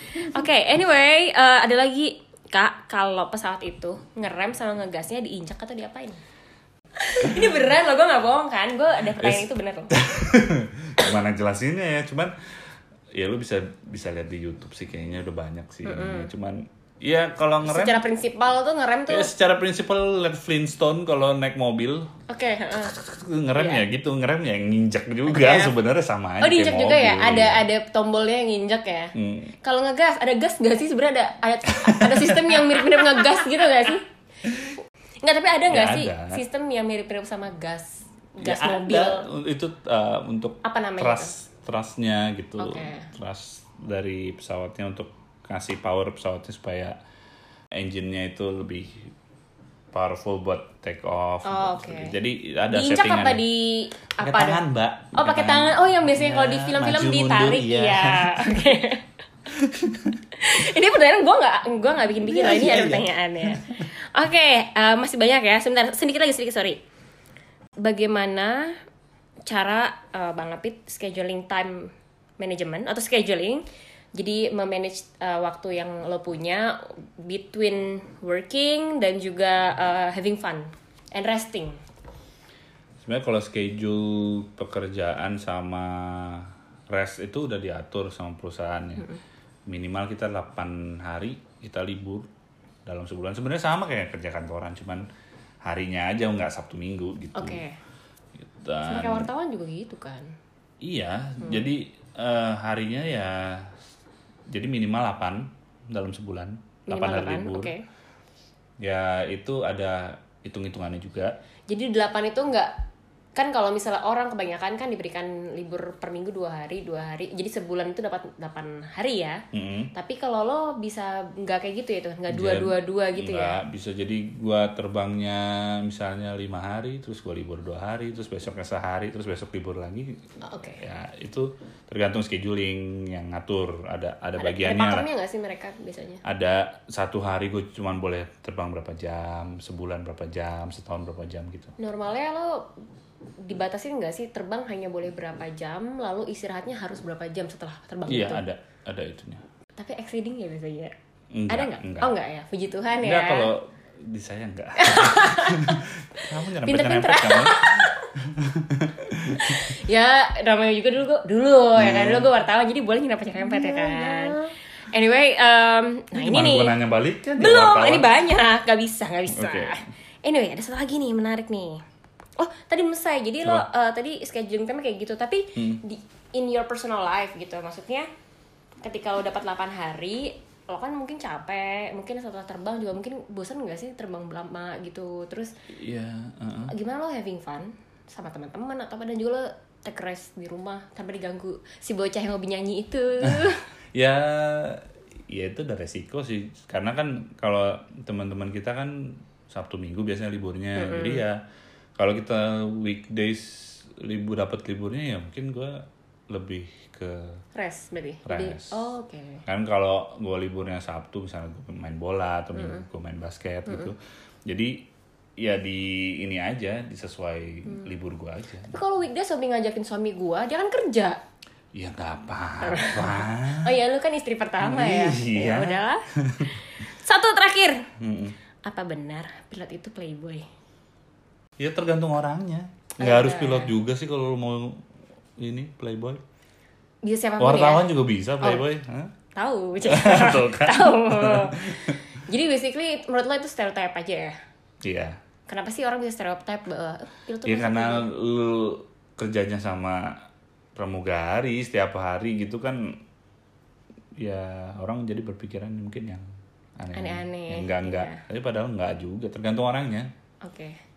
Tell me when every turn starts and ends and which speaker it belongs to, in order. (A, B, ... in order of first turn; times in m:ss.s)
0:00.1-0:06.2 A
0:07.0-0:10.0 A
0:07.2-0:07.6 B
0:09.2-0:12.3 B
0:13.1-0:18.0 B
0:15.8-0:16.3 A
0:17.6-0:19.3 A
0:19.1-0:22.1 B
0:22.3-0:23.0 A
0:22.8-0:27.6 B
0:23.6-0:23.8 A
0:25.3-0:25.8 A
0:26.4-0:34.1 A
0:29.2-0:29.5 B
0:31.8-0:33.3 B
0:34.4-0:34.7 B
0:35.2-0:39.3 A
0:35.7-0:36.4 B
0:38.4-0:47.0 B
0:40.6-0:41.4 A
0:42.6-0:43.1 A
0:47.7-0:49.1 B
0:49.9-0:53.4 B
0:51.4-0:52.2 A
0:52.7-0:59.1 A
0:54.2-0:58.7 B
0:59.5-1:00.2 B
1:00.3-1:06.8 A
1:02.2-1:03.8 B
1:07.8-1:08.8 A
1:09.5-1:13.6 A
1:14.2-1:21.8 A
1:23.0-1:29.1 B
1:29.7-1:32.3 B
1:32.9-1:35.1 B
1:35.6-1:37.6 B
1:37.4-1:37.8 A
1:38.4-1:39.3 B
1:38.8-1:40.3 A
1:40.8-1:43.8 B
1:44.5-1:47.7 B
1:46.9-1:47.8 A
1:48.8-1:51.3 B
1:51.7-1:52.7 A
1:53.4-2:03.6 A
1:59.5-1:59.9 B
2:02.3-2:10.2 B
2:10.4-2:10.9 A
2:10.8-2:15.1 B
2:14.4-2:16.2 A
2:16.2-2:21.8 B
2:21.8-2:22.7 A
2:23.4-2:28.4 A
2:28.1-2:29.4 B
2:29.8-2:30.9 A
2:31.3-2:32.1 B
2:31.5-2:33.5 A
2:33.0-2:39.7 B
2:34.8-2:38.1 A
2:39.2-2:46.8 A
2:41.7-2:42.3 B
2:43.5-2:44.4 B
2:46.1-2:48.1 B
2:47.4-2:51.8 A
2:49.3-2:49.8 B
2:52.4-2:58.1 A
2:55.6-2:55.8 B
2:58.8-3:05.5 A
3:05.7-3:06.7 B
3:06.6-3:13.7 A
3:13.2-3:21.4 B
3:20.8-3:21.2 A
3:22.0-3:27.4 B
3:27.6-3:29.4 A
3:28.3-3:28.8 B
3:29.5-3:34.9 B
3:32.6-3:32.8 A
3:35.4-3:38.7 B
3:38.7-3:41.2 A
3:41.7-3:43.7 B
3:42.6-3:47.9 A
3:44.6-3:46.6 B
3:48.0-3:48.4 B
3:48.6-3:50.4 A
3:51.6-3:54.8 B
3:53.0-3:53.7 A
3:55.4-3:56.2 B
3:57.0-3:57.9 A
3:57.4-3:59.1 B
3:59.4-4:04.4 A
3:59.8-4:02.0 B
4:04.8-4:05.2 B
4:05.5-4:08.1 A
4:07.4-4:10.2 B
4:10.8-4:13.0 B
4:14.2-4:16.2 B
4:16.8-4:20.1 B
4:16.9-4:18.2 A
4:20.4-4:20.8 A